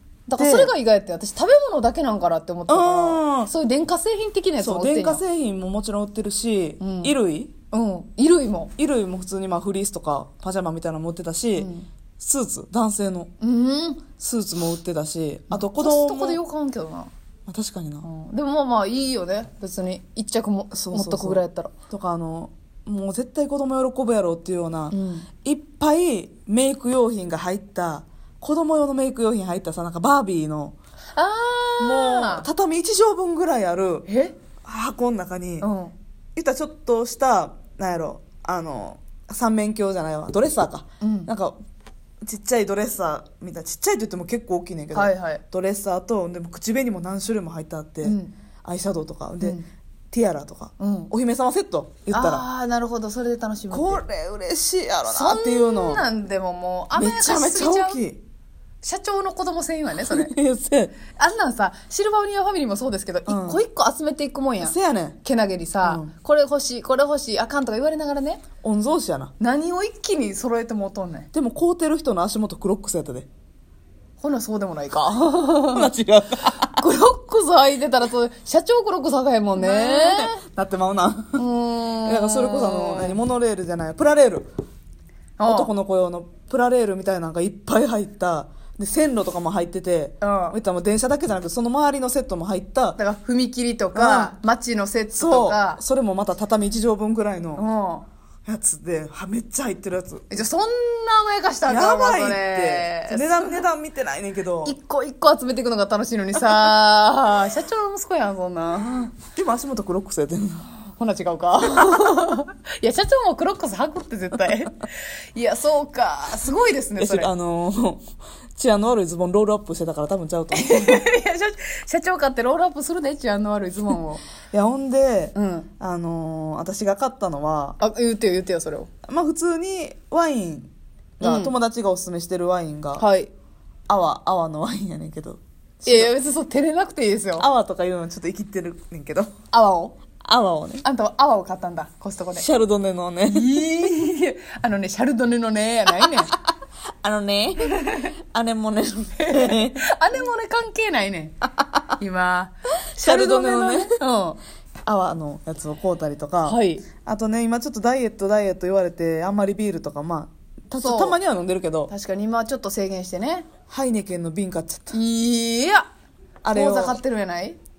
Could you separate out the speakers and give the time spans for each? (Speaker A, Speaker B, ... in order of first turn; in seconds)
Speaker A: 0.3-5.2, 6.8-7.2, 7.7-8.7, 11.6-11.9, 13.4-14.0, 15.5-17.1, 18.0-21.7, 24.9-25.3, 31.1-32.5, 34.1-34.3, 35.6-35.9, 41.0-41.3, 44.9-45.4, 48.0-48.3, 50.8-51.1, 52.1-54.0, 55.1-58.0, 58.8-60.3, 61.1-68.4, 69.4-71.3, 74.2-75.9, 76.7-80.4, 81.3-83.2, 85.4-85.7, 90.2-90.6, 93.0-95.8, 97.5-98.0, 100.3-103.6, 104.6-109.1, 111.0-117.3, 120.5-124.2, 125.3-125.7, 127.8-128.9, 131.2-131.5, 133.0-133.3, 135.8-137.5, 139.5-139.9, 140.8-142.4, 143.3-146.3, 147.6-148.1, 149.2-151.3, 152.0-154.4, 156.4-156.8, 160.8-161.2, 161.9-163.5, 164.9-165.9, 166.5-167.6
Speaker B: 0.3-0.7, 2.7-3.5, 4.6-7.5, 8.8-13.3, 14.2-16.4, 17.5-18.1, 20.7-30.8, 31.8-34.1, 34.6-35.7, 36.4-41.5, 42.2-49.6, 50.1-52.5, 53.7-56.0, 57.0-58.2, 60.0-61.0, 63.2-63.6, 64.6-65.2, 65.8-66.1, 68.6-69.3, 71.3-73.3, 75.7-76.8, 79.5-81.4, 82.0-84.5, 85.4-93.0, 93.9-94.3, 95.1-97.6, 98.5-100.4, 101.7-104.7, 108.9-110.7, 117.0-121.1, 124.5-127.8, 129.1-133.1, 133.9-136.1, 137.4-139.3, 140.2-140.8, 142.3-143.5, 146.0-146.4, 147.0-149.8, 151.6-151.9, 153.0-153.9, 154.8-161.9, 163.7-165.0, 166.4-167.0